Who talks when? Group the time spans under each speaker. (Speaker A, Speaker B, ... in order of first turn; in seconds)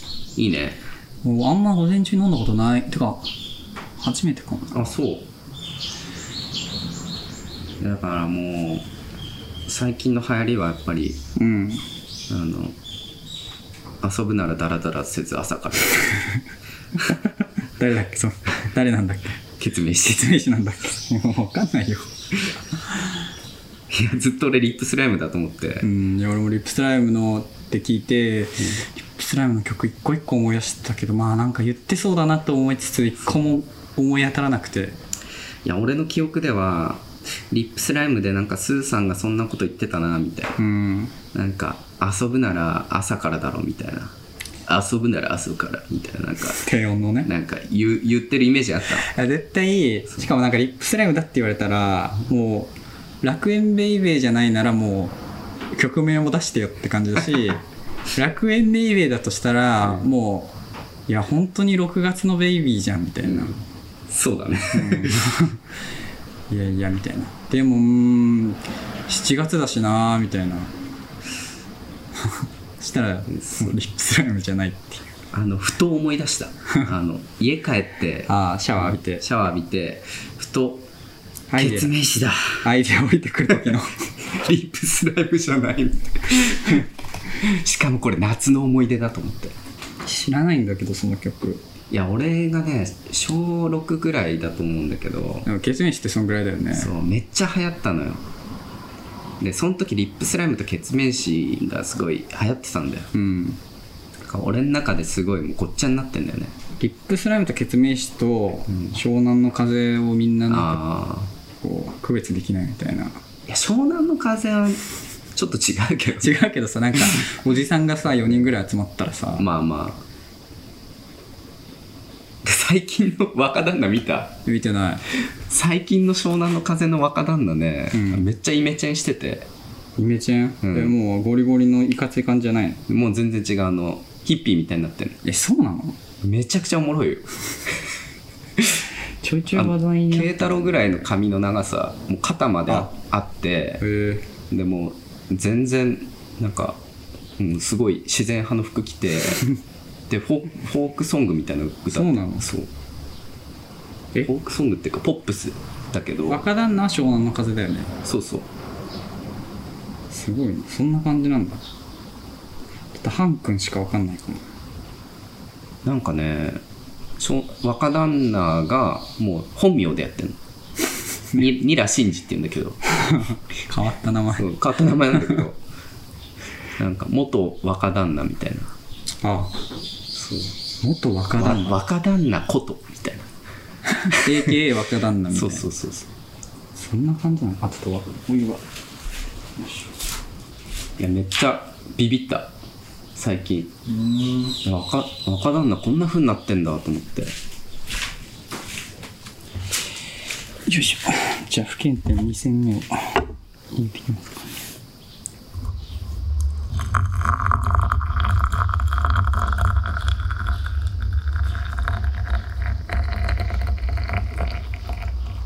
Speaker A: 0.3-0.8, 4.7-5.3, 7.8-8.9, 9.7-11.2, 12.3-12.8, 14.0-16.2, 19.6-20.4, 23.9-25.9, 35.6-40.6, 41.3-44.1, 44.7-46.7, 47.2-49.1, 63.2-65.3, 73.3-73.7, 75.3-80.9, 81.6-82.7, 84.2-89.5, 91.9-95.5, 96.7-98.2, 99.4-103.1, 104.2-106.5, 108.7-108.9, 110.5-111.3, 113.5-114.8, 115.3-116.3, 119.3-120.0, 122.4-124.4, 125.4-129.5, 130.6-130.9, 132.9-135.2, 136.2-137.8, 138.6-138.8, 139.5-143.8, 144.5-146.8, 147.4-149.5, 150.1-152.7, 154.2-156.4, 158.0-158.5, 165.8-166.6, 167.2-170.4, 171.3-172.8, 174.3-175.6, 176.8-178.7, 180.1-180.5, 181.3-183.3, 184.1-184.7, 185.3-186.1, 191.0-192.5, 193.1-193.7, 194.6-197.3
Speaker B: 1.2-3.3, 4.0-4.9, 11.3-11.8, 17.1-19.4, 20.0-23.1, 25.8-35.0, 40.6-41.1, 46.5-47.3, 48.9-55.2, 55.7-57.6, 58.1-60.5, 61.1-63.6, 64.7-65.6, 66.5-70.7, 72.2-75.1, 78.3-79.2, 81.5-82.0, 82.6-84.1, 90.0-91.6, 95.4-96.9, 103.1-103.6, 106.8-110.8, 111.6-113.2, 116.2-119.5, 124.5-125.0, 127.9-128.3, 130.0-132.8, 135.2-136.0, 139.2-140.9, 143.8-144.3, 151.9-152.5, 156.3-157.9, 160.1-161.6, 162.9-164.4, 172.9-175.4, 179.2-179.5, 180.8-181.8, 184.0-185.7, 186.7-188.6, 193.9-194.6, 200.7-204.6